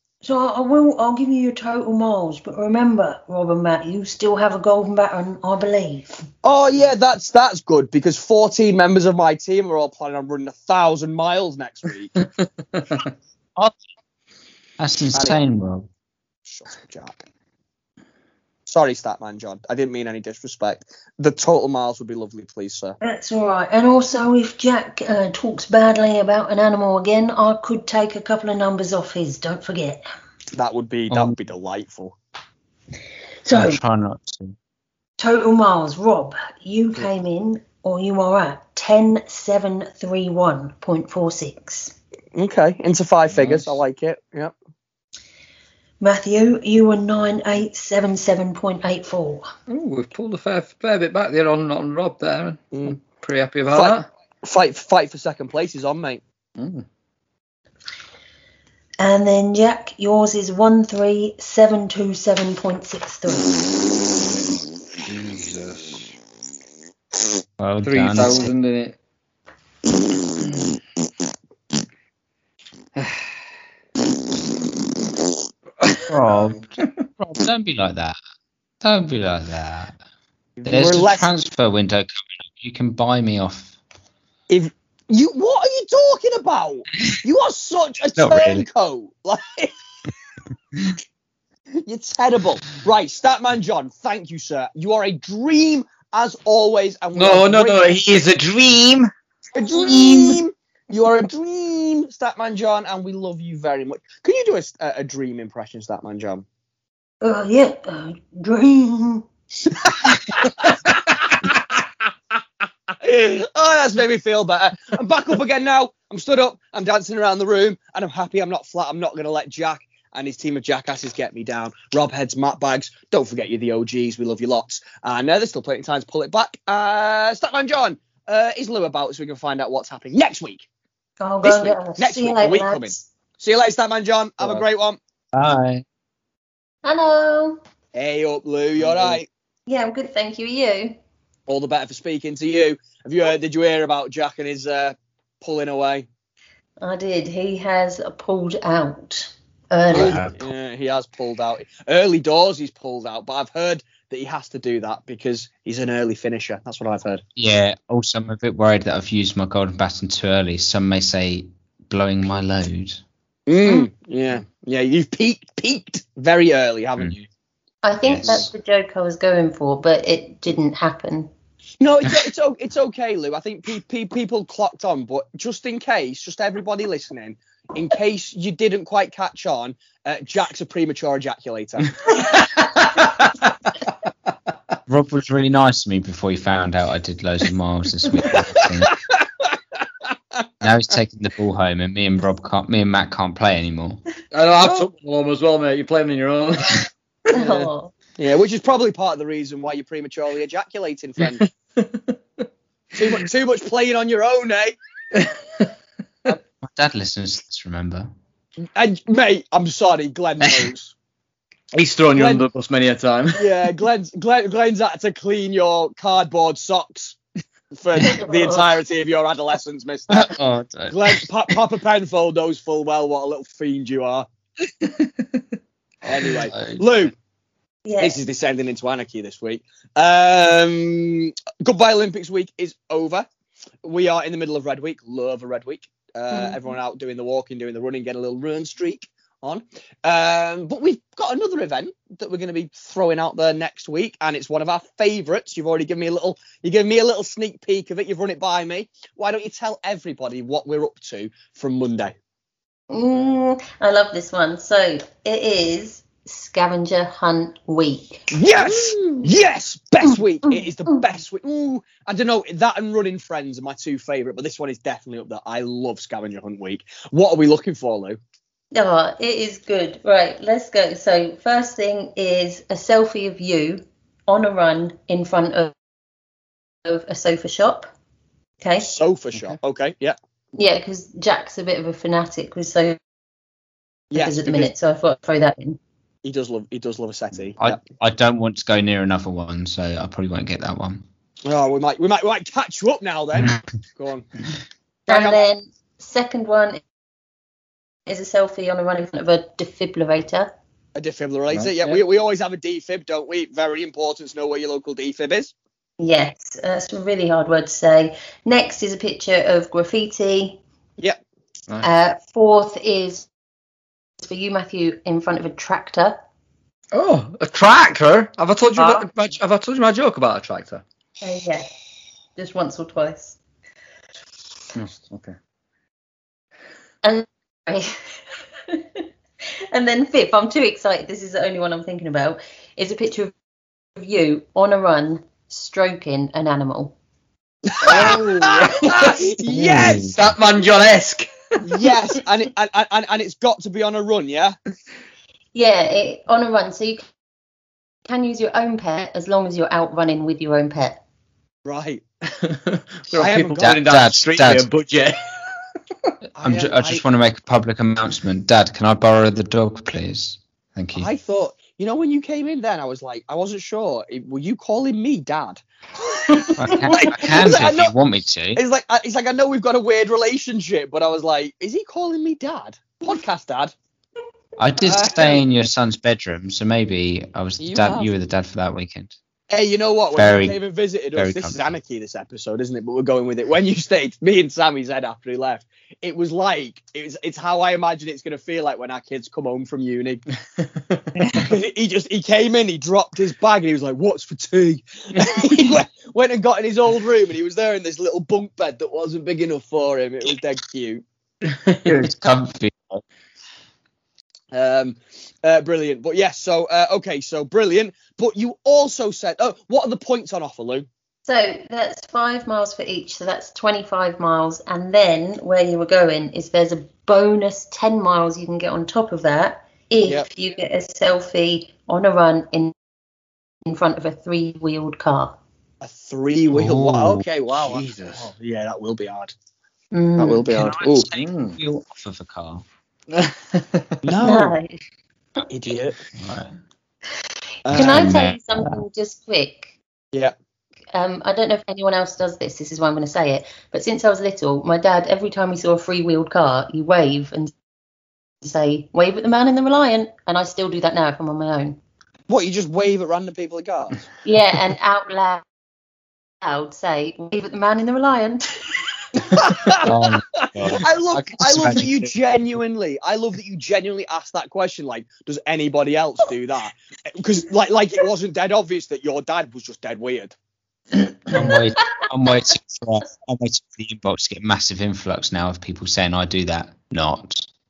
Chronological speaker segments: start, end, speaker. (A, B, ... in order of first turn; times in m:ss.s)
0:00.2-0:06.3 A
0:06.4-0:12.2 B
0:14.8-0:15.9 C
0:15.1-0:15.4 B
0:16.5-0:17.2 B
0:18.7-0:23.0 B
0:23.0-0:30.0 A
0:30.5-0:32.2 B
0:31.1-0:31.4 C
0:33.4-0:33.8 A
0:33.5-0:34.6 C
0:35.2-0:42.0 A
0:42.4-0:44.5 B
0:43.4-0:43.6 D
0:46.0-0:49.5 A
0:49.7-0:54.1 D
0:52.7-0:53.0 B
0:53.7-0:56.2 B
0:56.6-0:56.9 D
0:59.0-1:03.6 A
1:04.9-1:06.2 D
1:07.6-1:08.5 C
1:07.8-1:09.0 D
1:13.0-1:13.4 D
1:15.8-1:16.2 D
1:16.1-1:18.2 C
1:18.8-1:20.0 C
1:20.6-1:21.3 B
1:20.6-1:23.7 C
1:24.5-1:29.7 B
1:28.2-1:28.6 C
1:31.8-1:38.0 B
1:37.2-1:39.1 D
1:39.5-1:46.4 B
1:47.2-1:49.3 A
1:49.8-1:50.7 B
1:52.9-2:10.7 B
2:11.2-2:13.0 A
2:11.4-2:15.0 B
2:15.3-2:15.8 C
2:16.8-2:17.6 A
2:18.0-2:19.2 B
2:19.7-2:21.0 A
2:21.5-2:26.1 B
2:26.8-2:30.4 A
2:29.9-2:30.3 C
2:29.9-2:37.2 B
2:37.4-2:43.0 C
2:43.5-2:47.2 B
2:47.8-2:51.3 A
2:48.1-2:48.5 C
2:51.8-3:02.0 B
3:02.1-3:03.0 D
3:04.9-3:09.0 C
3:08.3-3:09.6 B
3:10.1-3:10.4 B
3:10.6-3:14.0 C
3:14.3-3:17.7 D
3:14.6-3:14.9 B
3:17.3-3:17.9 A
3:18.2-3:21.5 B
3:21.4-3:22.2 D
3:22.9-3:24.8 B
3:25.1-3:25.7 D
3:26.6-3:28.1 C
3:28.8-3:30.9 B
3:31.7-3:33.7 D
3:32.2-3:32.4 B
3:33.4-3:37.2 B
3:37.7-3:40.3 B
3:38.3-3:38.6 A
3:40.2-3:41.2 C
3:40.9-3:44.3 B
3:44.8-3:45.4 D
3:46.0-3:47.1 B
3:47.8-3:48.2 A
3:48.0-3:53.3 B
3:53.8-4:12.1 B
4:12.9-4:18.3 A
4:18.3-4:28.2 B
4:20.5-4:21.0 A
4:28.7-4:35.7 A
4:36.8-4:37.9 A
4:38.6-4:38.9 A
4:38.8-4:40.2 B
4:40.6-4:43.0 A
4:44.1-4:44.7 B
4:44.1-4:45.8 A
4:46.2-4:47.8 B
4:47.6-4:51.0 C
4:51.4-4:54.3 B
4:55.1-4:55.4 B
4:55.1-4:56.8 A
4:58.1-5:00.5 A
5:01.0-5:05.5 B
5:01.5-5:02.0 D
5:06.0-5:10.6 A
5:11.8-5:13.3 A
5:14.2-5:16.2 A
5:16.9-5:20.8 D
5:21.2-5:21.7 A
5:22.4-5:23.4 A
5:24.8-5:25.4 D
5:27.0-5:29.0 A
5:29.7-5:33.3 A
5:34.0-5:37.0 A
5:37.7-5:40.1 B
5:37.8-5:41.3 D
5:39.6-5:40.2 C
5:41.6-5:44.6 B
5:45.5-5:47.0 A
5:48.1-5:51.0 A
5:51.6-5:52.0 B
5:52.4-5:55.6 D
5:53.1-5:53.8 B
5:53.6-5:54.7 C
5:56.4-5:57.0 B
5:56.4-6:01.1 C
6:01.0-6:07.9 B
6:06.6-6:08.6 C
6:08.6-6:13.7 B
6:14.6-6:19.2 C
6:14.8-6:15.4 B
6:17.6-6:18.1 B
6:19.5-6:30.3 B
6:20.2-6:20.6 C
6:21.2-6:21.7 C
6:30.6-6:31.0 D
6:31.2-6:31.4 C
6:31.3-6:41.0 B
6:41.5-6:42.0 D
6:41.8-6:43.0 C
6:44.5-6:50.9 B
6:51.2-7:02.7 A
7:03.7-7:05.4 A
7:05.8-7:09.3 B
7:06.6-7:07.2 C
7:07.5-7:08.3 D
7:09.9-7:10.5 A
7:10.2-7:11.1 B
7:10.6-7:12.6 C
7:11.2-7:11.6 D
7:13.1-7:14.0 D
7:14.0-7:14.6 B
7:14.2-7:14.8 A
7:15.5-7:16.0 B
7:16.2-7:16.5 C
7:17.6-7:18.1 B
7:17.7-7:19.8 A
7:17.7-7:18.7 C
7:20.9-7:27.5 A
7:28.4-7:31.8 A
7:32.3-7:34.1 B
7:34.2-7:35.4 A
7:36.4-7:38.8 A
7:39.2-7:50.4 B
7:39.8-7:42.0 C
7:51.3-7:57.5 C
7:51.4-7:52.5 A